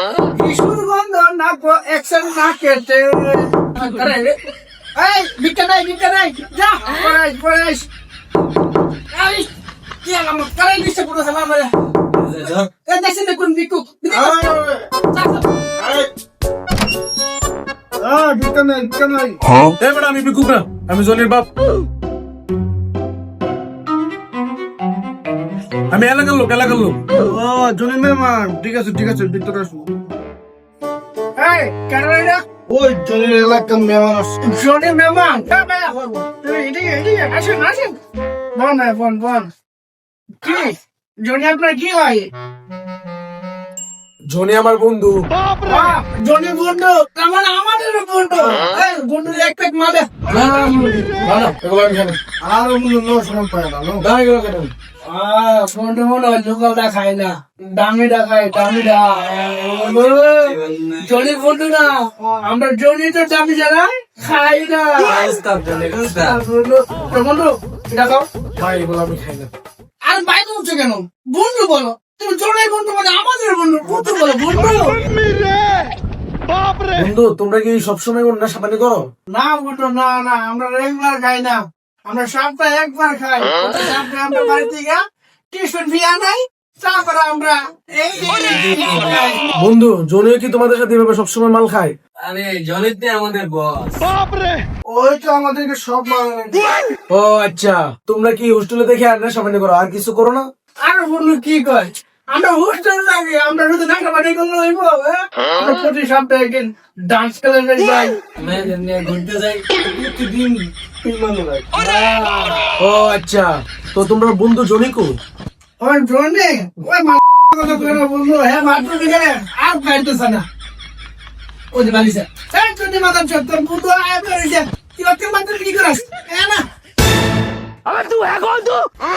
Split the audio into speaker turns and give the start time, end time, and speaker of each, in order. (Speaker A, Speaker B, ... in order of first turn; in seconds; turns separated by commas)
Speaker A: 0.3-4.4, Speaker A: 5.0-7.9, Speaker A: 9.1-9.5, Speaker A: 10.0-11.7, Speaker B: 12.1-12.7, Speaker A: 12.8-14.4, Speaker C: 14.1-14.9, Speaker A: 15.1-15.4, Speaker C: 15.8-16.1, Speaker C: 17.9-19.4, Speaker D: 19.8-21.5, Speaker D: 25.9-27.0, Speaker C: 27.1-29.9, Speaker A: 31.4-32.4, Speaker C: 32.7-34.3, Speaker A: 34.4-38.0, Speaker A: 38.5-39.5, Speaker A: 40.4-42.3, Speaker D: 44.3-45.2, Speaker A: 45.6-50.1, Speaker D: 50.3-52.2, Speaker C: 52.4-54.0, Speaker D: 54.0-54.7, Speaker A: 55.1-65.2, Speaker B: 60.4-61.0, Speaker B: 65.0-66.4, Speaker A: 66.1-68.2, Speaker D: 68.5-69.5, Speaker A: 70.0-75.1, Speaker C: 75.1-75.7, Speaker D: 76.9-79.0, Speaker A: 79.3-89.4, Speaker B: 88.3-89.2, Speaker D: 89.5-92.0, Speaker B: 92.2-94.1, Speaker C: 94.8-96.7, Speaker D: 97.1-100.5, Speaker A: 100.8-108.2, Speaker B: 108.3-109.6, Speaker C: 109.8-111.7, Speaker B: 111.8-112.4, Speaker D: 112.8-115.1, Speaker A: 115.8-120.5, Speaker A: 121.7-126.6, Speaker B: 127.9-128.8